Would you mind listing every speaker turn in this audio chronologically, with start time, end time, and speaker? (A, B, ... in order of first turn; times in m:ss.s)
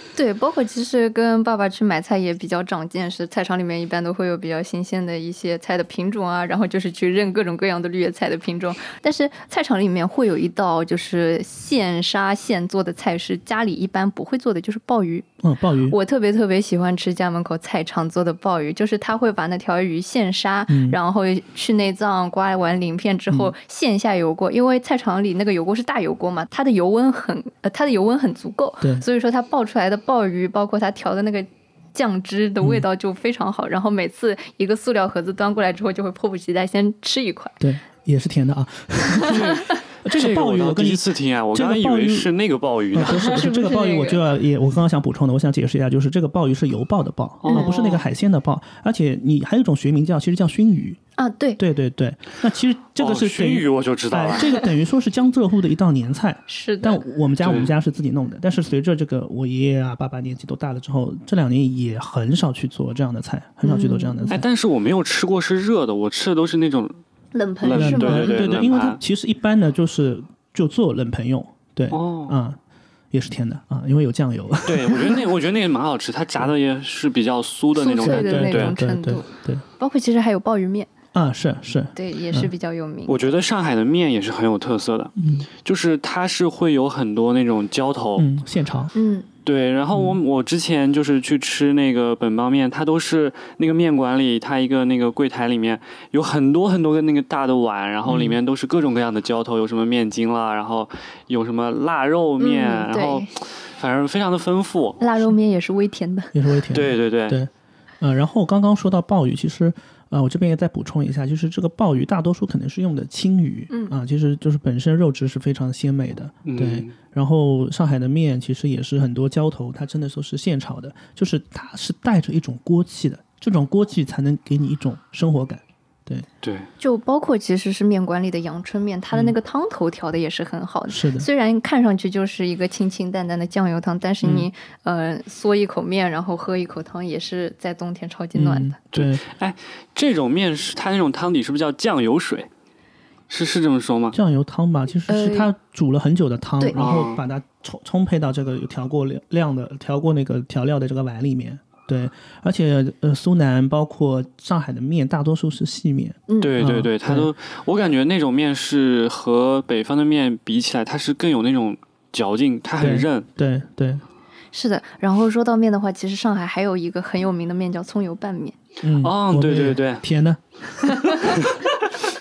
0:00.2-0:15.3 A
0:15.4-0:16.0 B
0:15.9-0:37.6 A
0:20.7-0:21.0 B
0:37.6-0:39.5 B
0:39.3-0:43.4 C
0:40.0-0:42.3 B
0:42.9-0:51.0 B
0:43.1-0:44.2 A
0:47.4-0:48.0 C
0:51.2-0:51.6 A
0:51.6-1:04.4 B
0:53.0-0:54.5 C
0:56.5-0:57.0 A
0:57.4-0:57.7 C
1:03.6-1:04.4 A
1:04.3-1:07.0 C
1:07.4-1:08.4 A
1:07.6-1:09.0 C
1:07.6-1:12.6 B
1:11.9-1:12.4 C
1:13.1-1:15.2 B
1:14.7-1:18.7 C
1:17.8-1:19.3 A
1:18.0-1:19.6 B
1:19.8-1:20.9 A
1:21.1-1:22.5 B
1:22.0-1:23.2 A
1:23.1-1:25.1 C
1:25.2-1:25.5 B
1:25.6-1:28.3 C
1:28.2-1:28.9 B
1:29.0-1:29.3 A
1:29.4-1:45.0 C
1:29.9-1:30.2 B
1:38.1-1:38.4 B
1:42.4-1:43.3 A
1:45.0-1:46.3 A
1:46.3-2:06.3 B
1:46.7-1:47.4 C
1:53.7-1:54.0 A
1:56.5-1:56.9 C
2:06.4-2:06.7 C
2:06.8-2:18.8 A
2:10.9-2:11.3 B
2:14.2-2:14.5 B
2:18.4-2:19.2 B
2:18.9-2:22.5 C
2:23.3-2:24.2 C
2:24.1-2:37.3 B
2:25.1-2:25.5 A
2:26.8-2:27.2 C
2:36.4-2:43.3 C
2:42.8-2:44.0 B
2:44.5-2:48.6 A
2:48.8-2:51.3 B
2:49.0-2:50.0 C
2:50.9-2:51.2 A